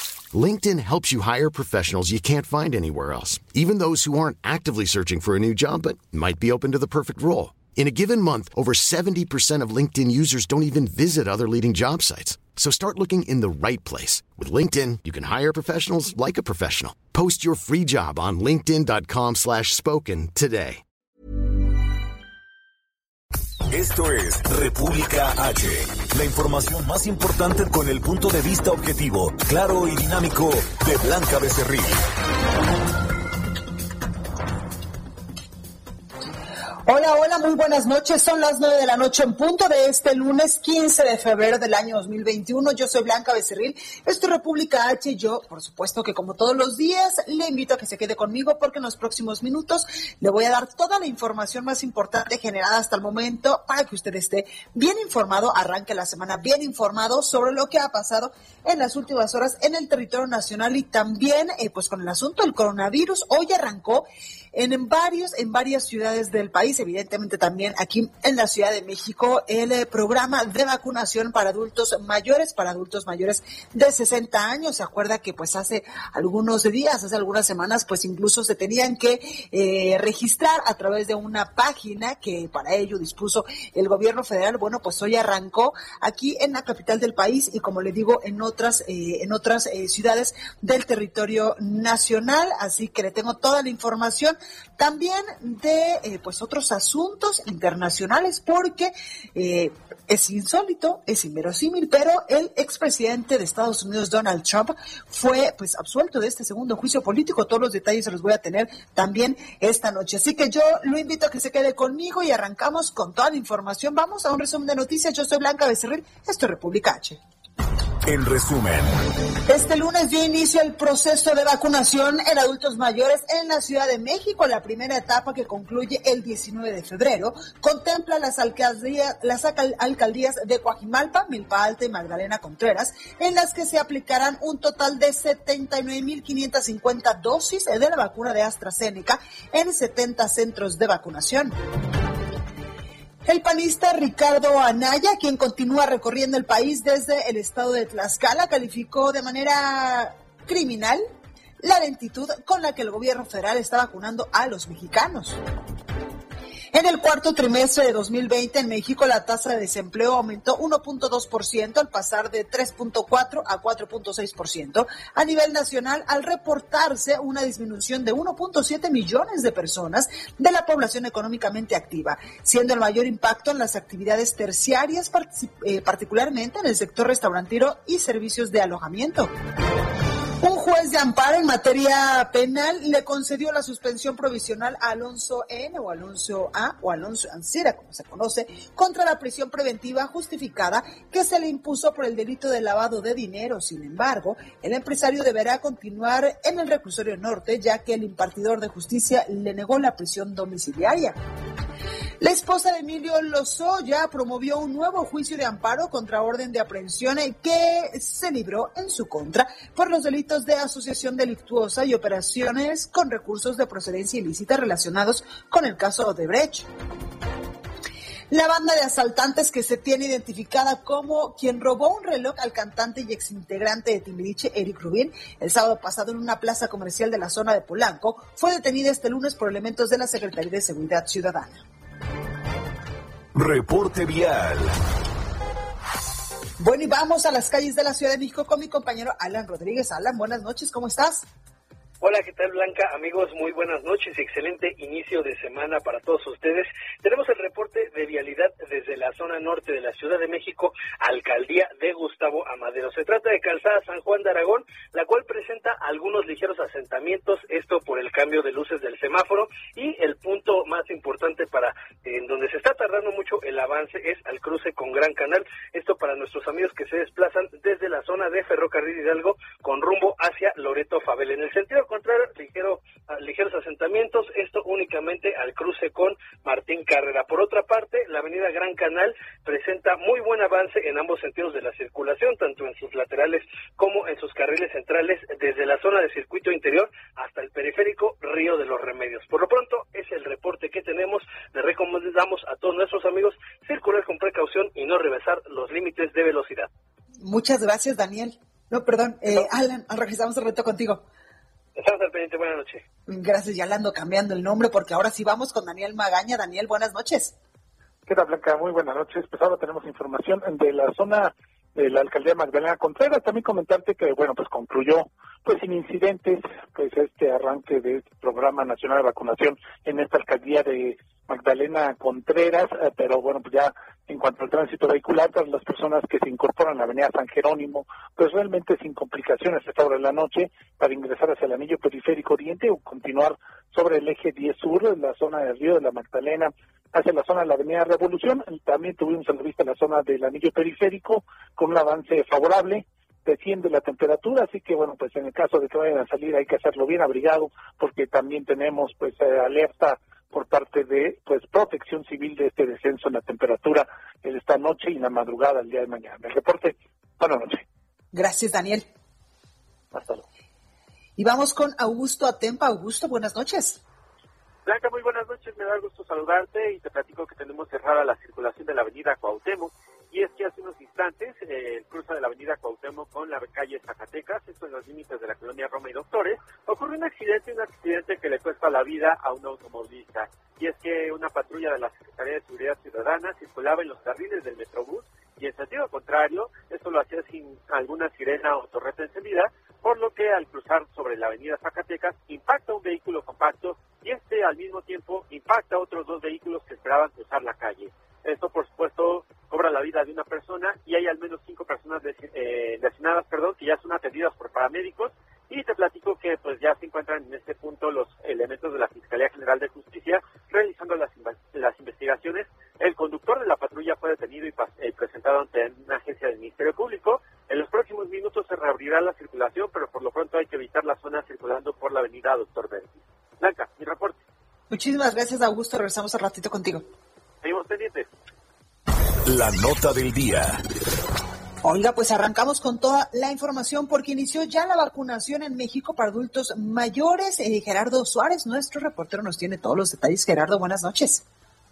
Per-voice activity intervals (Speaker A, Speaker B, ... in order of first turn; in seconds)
Speaker A: 0.3-20.8
Speaker B: 23.7-32.0, 118.0-118.9, 233.3-234.7, 429.2-430.6
Speaker C: 36.8-117.2, 119.5-141.6, 143.2-151.0, 151.6-155.4, 156.7-179.3, 180.4-201.2, 202.2-216.7, 218.3-231.6, 236.6-241.2, 297.2-301.0, 303.1-307.3, 358.1-358.9, 361.2-363.8, 424.7-426.8, 431.6-441.2
Speaker D: 242.0-296.7, 301.8-302.8
Speaker E: 308.1-357.6, 359.9-360.2
Speaker F: 364.6-424.1, 427.4-428.1